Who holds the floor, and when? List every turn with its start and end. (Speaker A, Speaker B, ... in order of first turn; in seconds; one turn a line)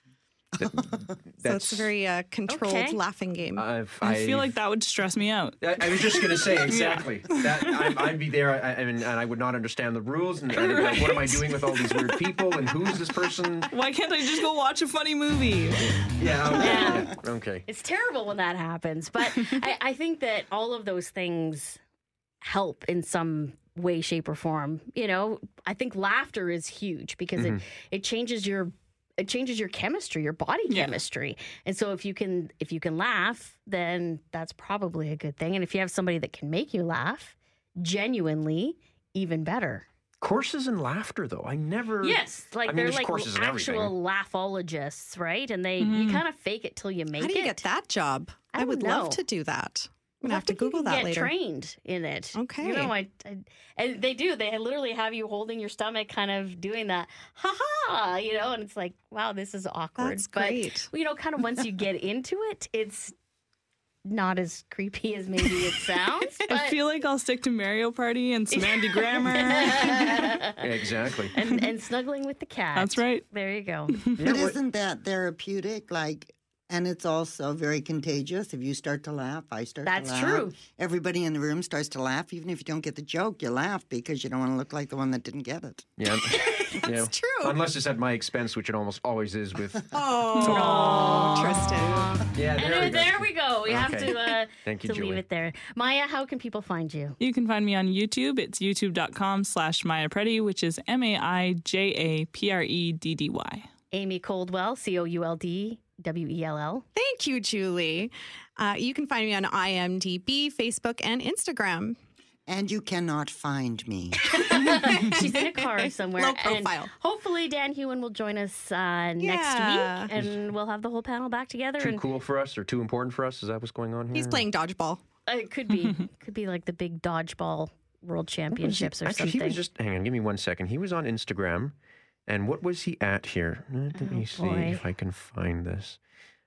Speaker A: 0.6-1.9
Speaker B: 1.4-3.7
Speaker C: 2.5-3.0
Speaker A: 3.5-4.6
Speaker D: 4.0-8.0
Speaker A: 5.6-13.7
Speaker D: 10.5-12.3
Speaker D: 13.7-16.0
Speaker A: 16.2-17.6
Speaker C: 16.6-21.8
Speaker C: 22.4-39.9
Speaker A: 27.4-27.6
Speaker D: 30.7-31.0
Speaker A: 40.2-43.9
Speaker C: 42.0-47.7
Speaker D: 45.8-46.2
Speaker B: 47.2-51.3
Speaker C: 48.5-49.2
Speaker C: 50.2-63.1
Speaker B: 52.3-52.9
Speaker B: 60.0-60.9
Speaker C: 64.0-66.8
Speaker D: 66.5-70.4
Speaker C: 69.3-70.4
Speaker A: 70.6-71.3
Speaker C: 71.3-74.0
Speaker D: 72.8-73.2
Speaker D: 73.9-74.4
Speaker E: 74.2-85.9
Speaker C: 79.8-80.6
Speaker A: 86.0-91.6
Speaker B: 86.9-87.6
Speaker B: 89.9-92.2
Speaker D: 90.4-90.7
Speaker C: 90.4-97.2
Speaker A: 92.3-95.2
Speaker D: 97.2-103.7
Speaker C: 103.9-106.8
Speaker B: 107.0-112.0
Speaker E: 112.5-114.2
Speaker C: 114.3-122.1
Speaker B: 114.6-116.9
Speaker B: 119.2-120.1
Speaker A: 120.1-120.4
Speaker A: 121.8-124.5
Speaker B: 124.1-125.0
Speaker C: 125.3-129.6
Speaker A: 128.6-131.8
Speaker A: 132.3-136.0
Speaker C: 133.9-134.8